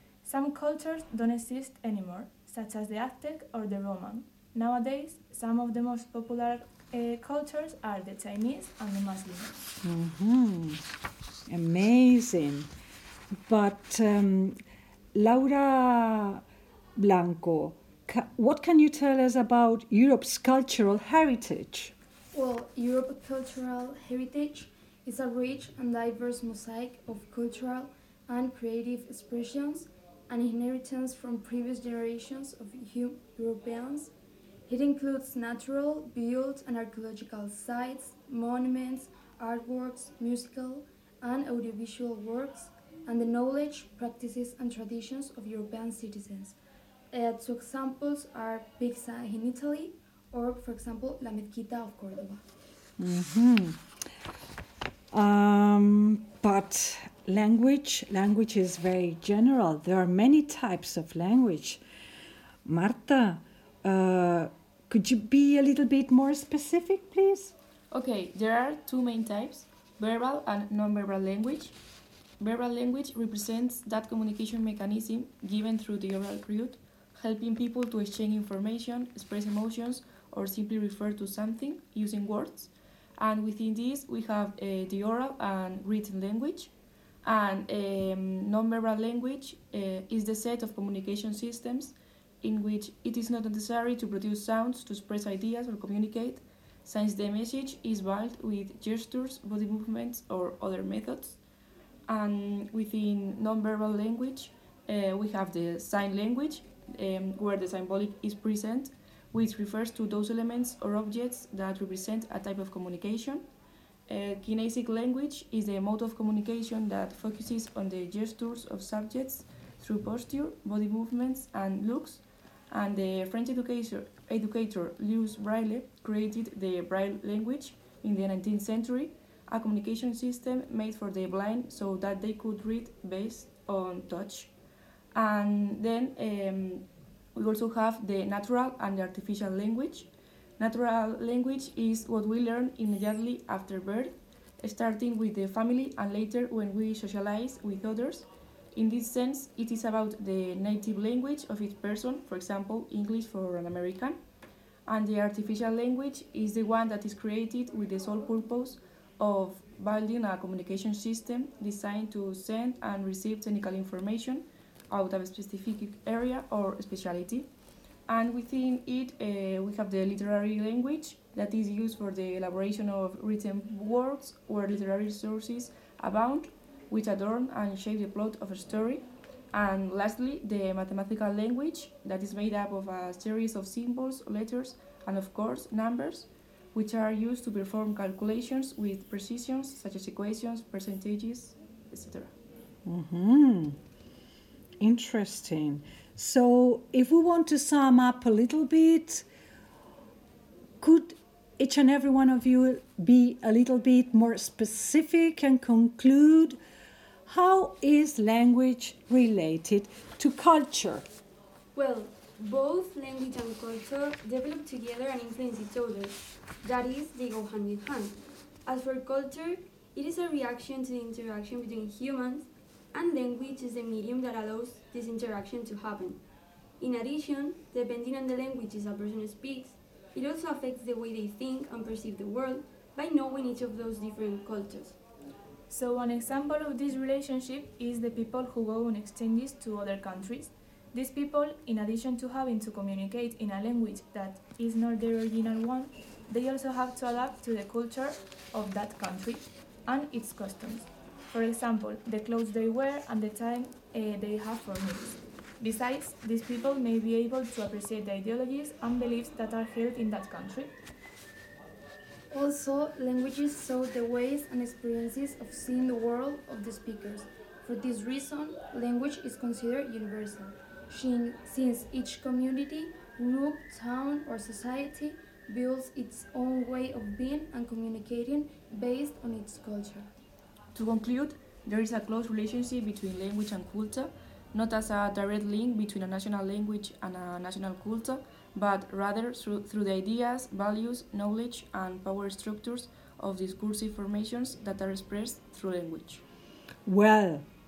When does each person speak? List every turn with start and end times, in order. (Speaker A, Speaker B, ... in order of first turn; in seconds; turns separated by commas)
Speaker A: 0.2-9.7, Speaker B: 9.8-10.8, Speaker B: 11.5-12.7, Speaker B: 13.5-14.6, Speaker B: 15.1-16.4, Speaker B: 17.0-21.9, Speaker C: 22.3-34.1, Speaker C: 34.7-46.6, Speaker C: 47.1-52.4, Speaker B: 53.0-53.8, Speaker B: 55.1-61.8, Speaker B: 62.6-67.5, Speaker D: 67.9-71.8, Speaker D: 72.4-86.7, Speaker D: 87.2-101.4, Speaker D: 102.1-113.4, Speaker D: 114.1-134.5, Speaker D: 135.1-154.2, Speaker D: 154.9-167.5, Speaker D: 168.1-192.3, Speaker B: 192.8-193.8, Speaker B: 194.8-199.3, Speaker B: 200.8-206.6, Speaker B: 207.3-211.1, Speaker E: 211.8-226.2, Speaker E: 226.8-235.0, Speaker A: 235.7-260.8, Speaker C: 262.3-280.1, Speaker D: 280.7-296.2, Speaker B: 296.9-297.4